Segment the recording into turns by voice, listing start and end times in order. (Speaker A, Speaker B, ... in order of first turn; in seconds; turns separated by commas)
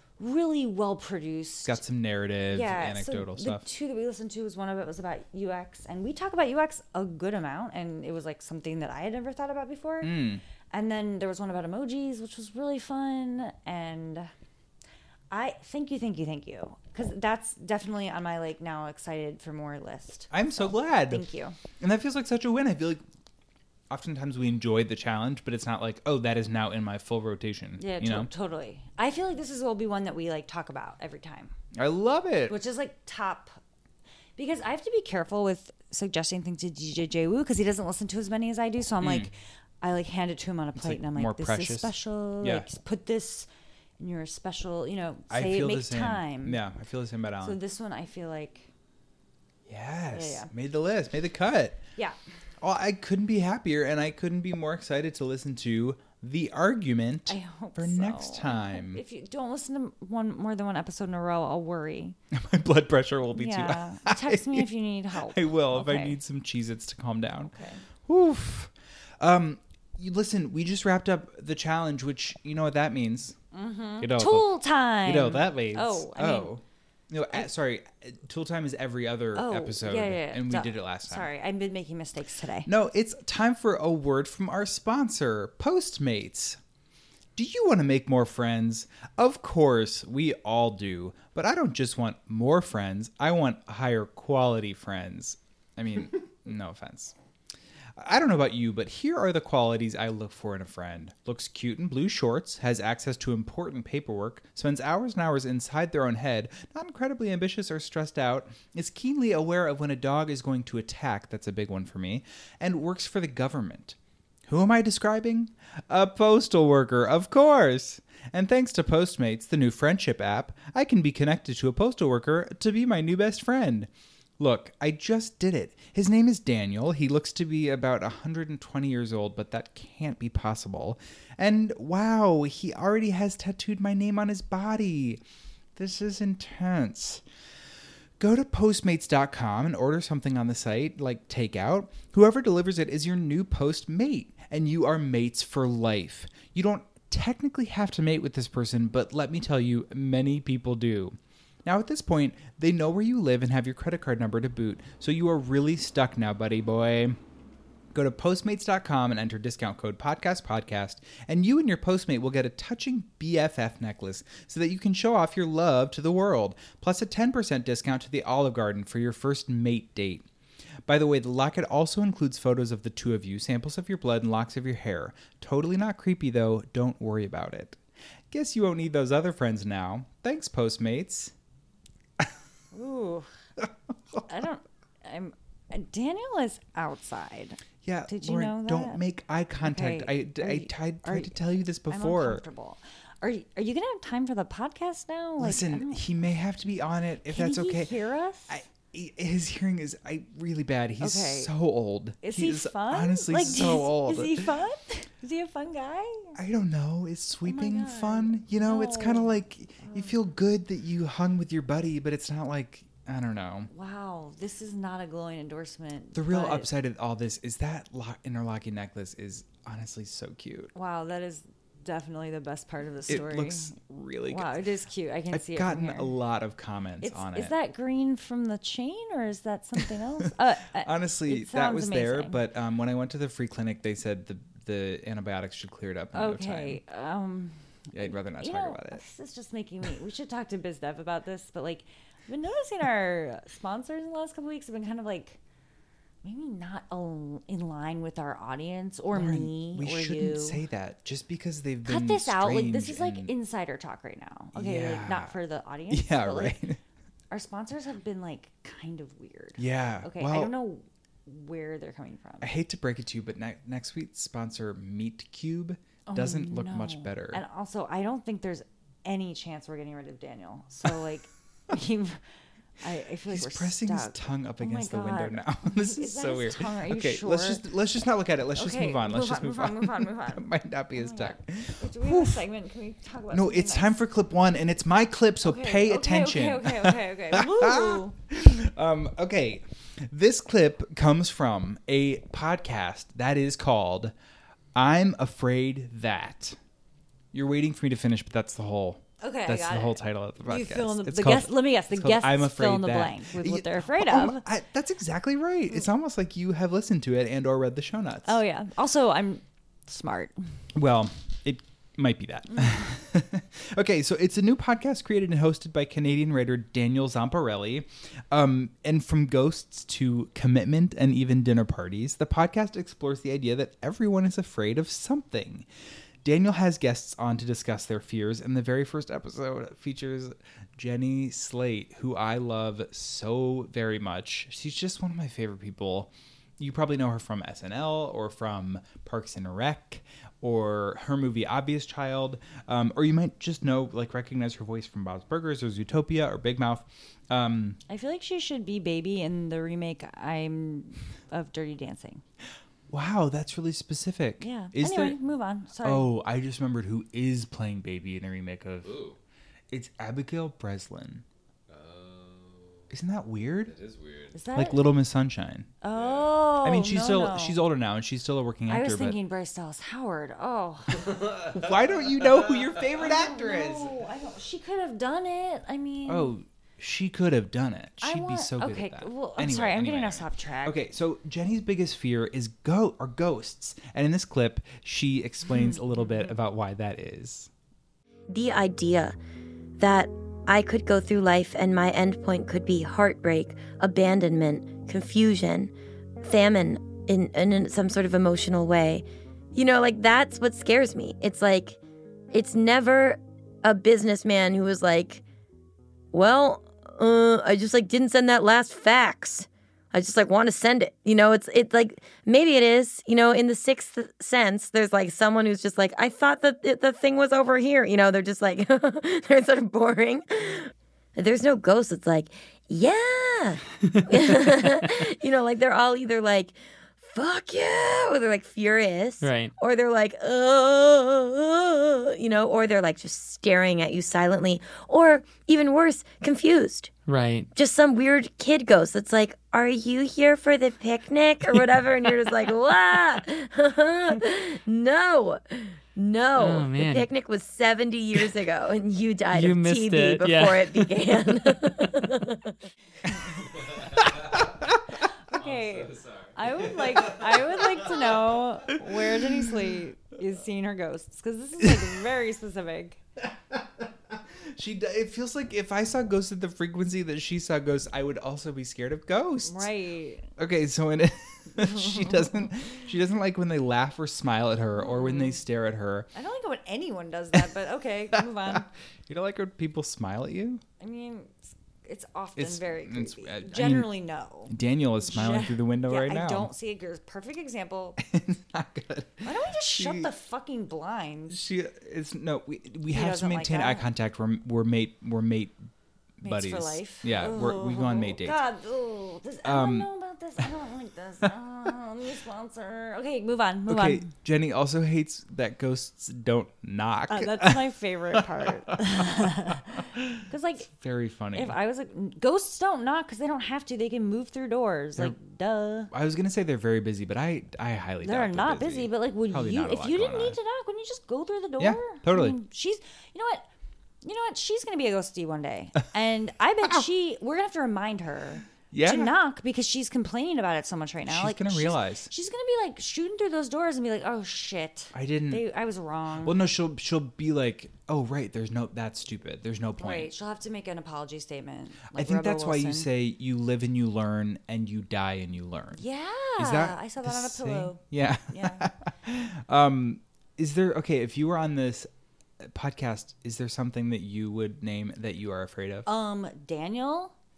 Speaker A: 0.2-1.8, Speaker B: 1.6-3.7, Speaker A: 2.5-10.2, Speaker B: 10.0-10.4, Speaker A: 10.7-14.3, Speaker A: 15.3-21.6, Speaker B: 20.3-21.3, Speaker B: 21.8-23.0, Speaker B: 23.9-28.3, Speaker A: 27.8-31.5, Speaker B: 31.8-32.6, Speaker A: 32.5-33.6, Speaker A: 34.4-43.5, Speaker B: 39.0-39.3, Speaker B: 40.8-42.7, Speaker A: 44.0-46.6, Speaker B: 45.3-47.6, Speaker A: 47.4-48.7, Speaker B: 49.7-51.8, Speaker A: 50.1-50.5, Speaker B: 52.6-59.0, Speaker A: 57.3-62.2, Speaker B: 62.3-67.5, Speaker A: 63.4-66.2, Speaker A: 67.4-67.8, Speaker B: 68.1-73.4, Speaker A: 73.5-76.5, Speaker B: 74.0-81.3, Speaker A: 79.3-82.7, Speaker B: 82.7-86.6, Speaker B: 87.4-97.2, Speaker B: 98.0-135.2, Speaker B: 135.8-137.2, Speaker B: 138.2-157.2, Speaker B: 157.9-170.2, Speaker B: 170.9-177.8, Speaker B: 178.3-181.3, Speaker A: 182.7-183.3, Speaker A: 184.3-189.0, Speaker B: 187.8-192.4, Speaker A: 189.6-196.0, Speaker B: 195.4-198.0, Speaker A: 197.3-198.6, Speaker B: 198.5-204.5, Speaker A: 201.0-201.5, Speaker A: 202.2-206.4, Speaker B: 206.3-213.7, Speaker A: 207.4-210.1, Speaker A: 213.7-216.7, Speaker B: 216.1-220.7, Speaker A: 220.7-223.7, Speaker B: 223.1-224.5, Speaker A: 224.3-226.1, Speaker B: 225.3-227.6, Speaker A: 227.0-232.4, Speaker B: 230.8-236.8, Speaker A: 236.1-245.4, Speaker B: 237.9-239.0, Speaker A: 246.2-250.6, Speaker B: 249.1-253.3, Speaker A: 251.8-256.6, Speaker B: 254.6-255.3, Speaker B: 255.9-256.8, Speaker A: 257.3-262.5, Speaker B: 259.6-260.5, Speaker B: 262.4-267.4, Speaker A: 266.1-272.2, Speaker A: 272.8-277.6, Speaker B: 273.3-282.4, Speaker A: 278.6-280.5, Speaker A: 281.0-284.0, Speaker B: 283.3-294.1, Speaker A: 285.4-288.1, Speaker B: 294.8-296.6, Speaker B: 297.3-308.4, Speaker A: 299.2-304.4, Speaker A: 308.2-310.4, Speaker B: 310.8-325.7, Speaker B: 326.2-347.8, Speaker A: 347.9-352.2, Speaker B: 352.9-355.2, Speaker A: 354.4-356.1, Speaker B: 355.8-359.0, Speaker C: 358.8-359.2, Speaker B: 359.7-361.2, Speaker C: 361.7-362.8, Speaker B: 362.9-363.7, Speaker C: 363.7-364.3, Speaker A: 364.3-364.8, Speaker B: 364.5-365.7, Speaker A: 365.8-367.6, Speaker C: 365.9-366.4, Speaker B: 366.6-369.2, Speaker A: 368.7-371.1, Speaker B: 371.5-374.0, Speaker A: 373.0-376.3, Speaker B: 376.1-387.5, Speaker A: 378.0-380.8, Speaker A: 385.5-386.1, Speaker D: 388.3-389.2, Speaker D: 389.8-401.8, Speaker D: 402.3-405.2, Speaker D: 406.1-436.9, Speaker E: 429.2-429.5, Speaker E: 437.1-437.5, Speaker D: 437.6-452.5, Speaker E: 446.4-447.1, Speaker E: 449.3-450.8, Speaker A: 455.3-463.0, Speaker C: 455.4-456.5, Speaker B: 464.5-469.7, Speaker A: 469.4-470.3, Speaker B: 470.4-476.1, Speaker A: 471.6-472.3, Speaker A: 474.8-475.4, Speaker A: 476.1-478.7, Speaker B: 478.2-480.6, Speaker A: 480.8-488.0, Speaker B: 482.4-483.9, Speaker B: 484.5-486.5, Speaker B: 488.0-490.1, Speaker A: 489.2-491.4, Speaker B: 491.3-495.6, Speaker A: 492.9-493.9, Speaker B: 496.2-498.4, Speaker A: 496.2-504.1, Speaker B: 499.4-499.9, Speaker B: 503.7-508.4, Speaker A: 507.1-510.7, Speaker B: 510.0-511.6, Speaker A: 511.3-515.9, Speaker B: 515.9-520.4, Speaker A: 518.0-523.5, Speaker B: 521.6-522.4, Speaker A: 524.0-536.4, Speaker B: 528.7-529.1, Speaker B: 531.1-532.1, Speaker B: 534.9-535.4, Speaker B: 536.2-540.1, Speaker A: 539.8-542.9, Speaker B: 541.9-545.8, Speaker A: 545.8-548.6, Speaker B: 546.4-551.9, Speaker B: 552.4-555.9, Speaker A: 555.9-557.1